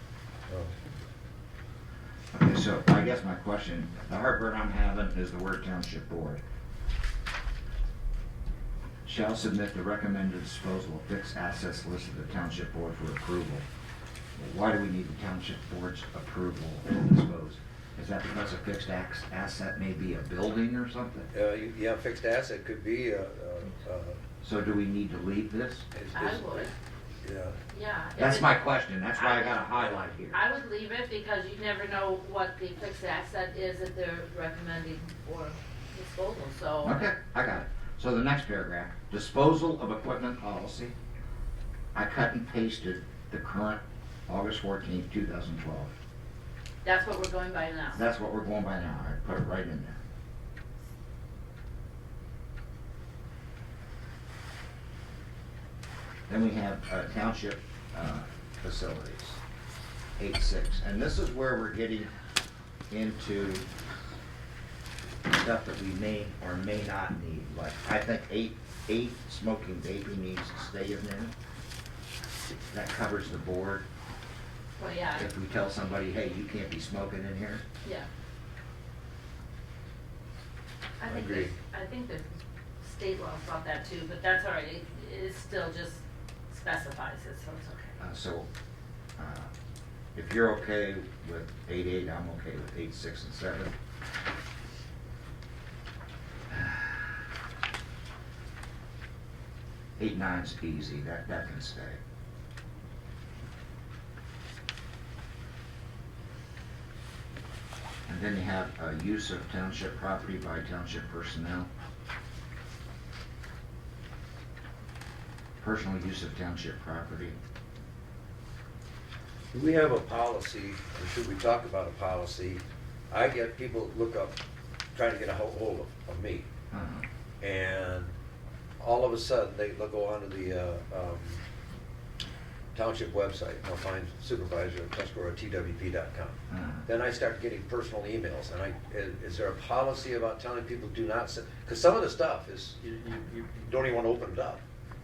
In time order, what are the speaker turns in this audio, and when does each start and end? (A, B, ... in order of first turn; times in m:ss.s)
0:00.5-0:00.8 A
0:02.3-0:06.4 B
0:09.0-0:13.7 B
0:14.4-0:21.3 B
0:21.3-0:24.2 A
0:24.4-0:25.9 B
0:25.9-0:27.6 A
0:26.1-0:26.7 C
0:27.7-0:37.0 C
0:28.2-0:30.4 B
0:36.8-0:40.9 B
0:41.9-0:45.9 B
0:46.8-0:48.0 C
0:47.9-0:50.0 B
0:56.3-0:59.4 B
1:00.2-1:02.1 B
1:02.9-1:03.6 B
1:05.3-1:11.3 B
1:12.7-1:13.8 B
1:14.8-1:15.3 C
1:15.1-1:17.6 B
1:21.0-1:22.3 C
1:21.0-1:21.5 A
1:22.8-1:28.0 C
1:28.0-1:28.5 B
1:29.2-1:29.5 B
1:30.2-1:33.7 B
1:36.5-1:37.1 B
1:40.0-1:42.0 B
1:48.1-1:51.7 B
1:55.6-1:57.4 B
1:59.5-2:04.4 A
2:04.9-2:06.5 A
2:06.7-2:07.1 B
2:07.4-2:08.1 A
2:08.8-2:11.4 A
2:12.7-2:24.6 A
2:16.5-2:16.8 B